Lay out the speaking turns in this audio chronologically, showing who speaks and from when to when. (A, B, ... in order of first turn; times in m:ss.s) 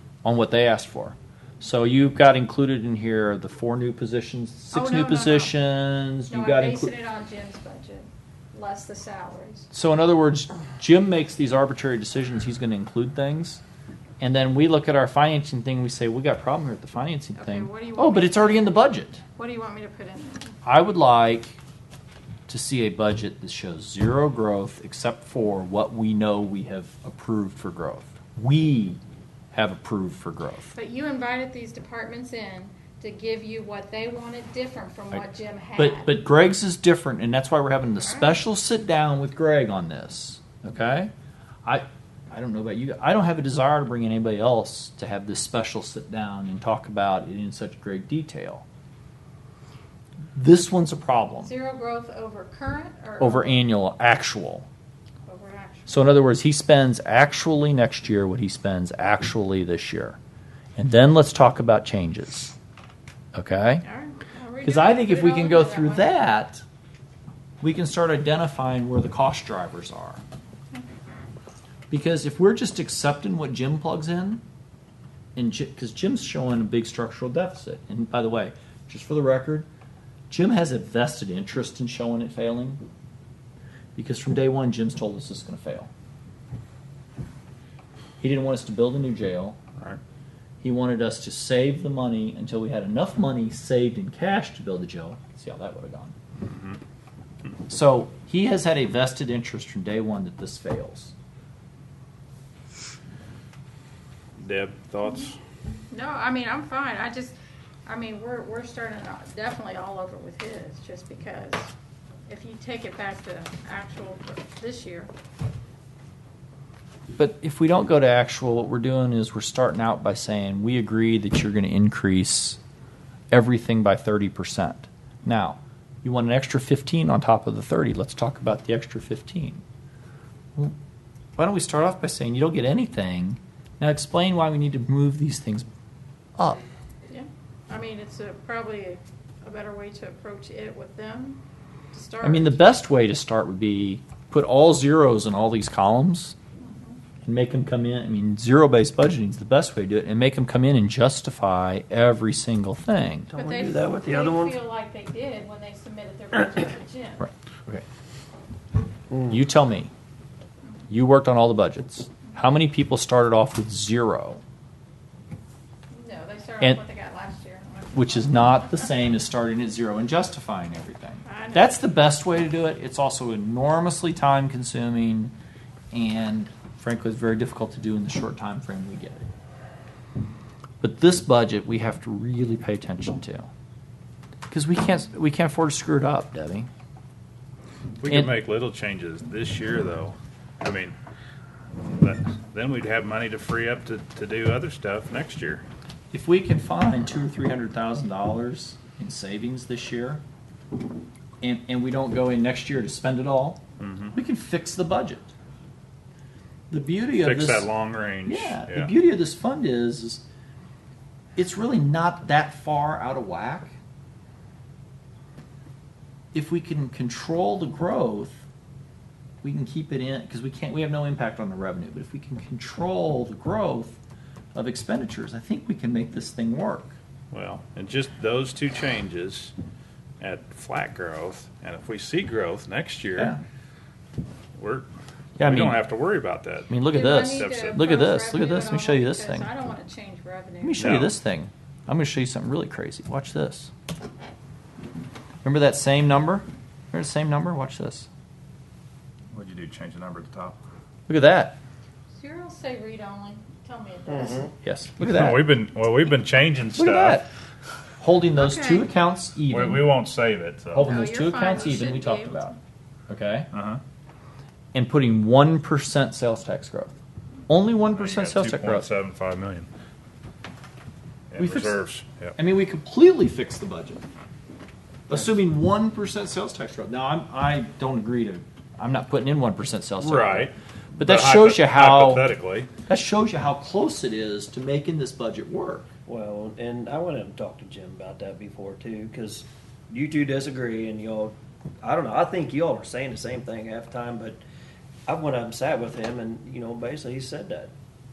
0:00.2-0:06.9 A
0:04.7-0:05.5 B
0:06.3-0:09.7 B
0:09.7-0:13.6 A
0:14.2-0:19.2 A
0:17.4-0:18.8 B
0:19.3-0:20.6 B
0:20.6-0:21.6 A
0:22.5-0:29.0 A
0:29.5-0:30.7 A
0:30.7-0:36.1 B
0:35.8-0:41.1 A
0:38.0-0:38.4 B
0:41.6-0:48.6 A
0:50.3-0:51.5 A
0:51.4-0:53.6 B
0:53.2-0:54.7 A
0:55.3-0:56.1 B
0:55.9-1:00.2 A
1:00.8-1:02.6 A
1:03.3-1:03.8 A
1:03.8-1:06.2 B
1:04.6-1:06.6 A
1:07.6-1:10.2 A
1:11.9-1:14.4 A
1:15.4-1:19.7 A
1:20.3-1:22.8 A
1:24.0-1:25.9 A
1:28.2-1:29.6 A
1:30.6-1:36.1 A
1:36.4-1:36.8 C
1:37.7-1:41.1 A
1:44.4-1:45.4 C
1:45.9-1:47.3 B
1:47.8-1:51.7 B
1:52.3-1:55.1 B
1:57.1-2:02.6 A
2:03.3-2:09.6 A
2:11.4-2:15.7 A
2:16.4-2:16.6 A
2:17.1-2:21.4 B
2:21.9-2:22.6 B
2:22.2-2:26.3 A
2:26.6-2:27.0 B
2:27.2-2:33.3 A
2:33.3-2:34.6 D
2:33.3-2:37.3 B
2:37.2-2:37.8 A
2:39.3-2:39.9 A
2:40.9-2:44.4 A
2:45.9-2:48.9 B
2:47.9-2:55.3 A
2:51.2-2:51.8 B
2:55.9-2:59.3 A
3:00.8-3:03.5 A
3:04.5-3:06.7 A
3:08.0-3:11.0 C
3:08.1-3:08.3 A
3:11.8-3:15.6 C
3:16.1-3:20.2 A
3:21.4-3:23.6 A
3:23.8-3:24.1 C
3:24.1-3:25.3 A
3:26.7-3:27.7 A
3:27.1-3:28.9 C
3:28.2-3:30.2 A
3:31.4-3:33.7 A
3:36.3-3:38.4 A
3:39.4-3:44.0 A
3:44.5-3:46.9 A
3:47.3-3:49.5 C
3:50.2-3:53.4 C
3:54.6-3:54.9 C
3:55.4-3:55.8 A
3:55.4-3:57.8 C
3:56.7-3:59.6 A
3:56.9-4:01.0 B
4:00.6-4:03.7 A
4:00.8-4:01.1 C
4:05.4-4:08.1 A
4:09.3-4:10.6 C
4:11.1-4:11.6 A
4:12.1-4:14.5 B
4:14.1-4:14.5 D
4:14.6-4:15.5 A
4:15.0-4:17.2 C
4:16.7-4:17.3 A
4:18.0-4:20.0 A
4:18.3-4:18.9 B
4:19.5-4:21.0 C
4:20.7-4:22.6 A
4:20.9-4:22.6 B
4:23.1-4:23.5 A
4:23.5-4:23.8 C
4:24.7-4:27.0 A
4:27.5-4:28.9 A
4:27.9-4:29.7 C
4:31.3-4:32.3 C
4:31.4-4:31.8 A
4:32.4-4:34.0 A
4:35.1-4:42.3 A
4:40.0-4:42.7 C
4:42.8-4:45.9 A
4:46.1-4:54.4 D
4:55.1-4:57.7 D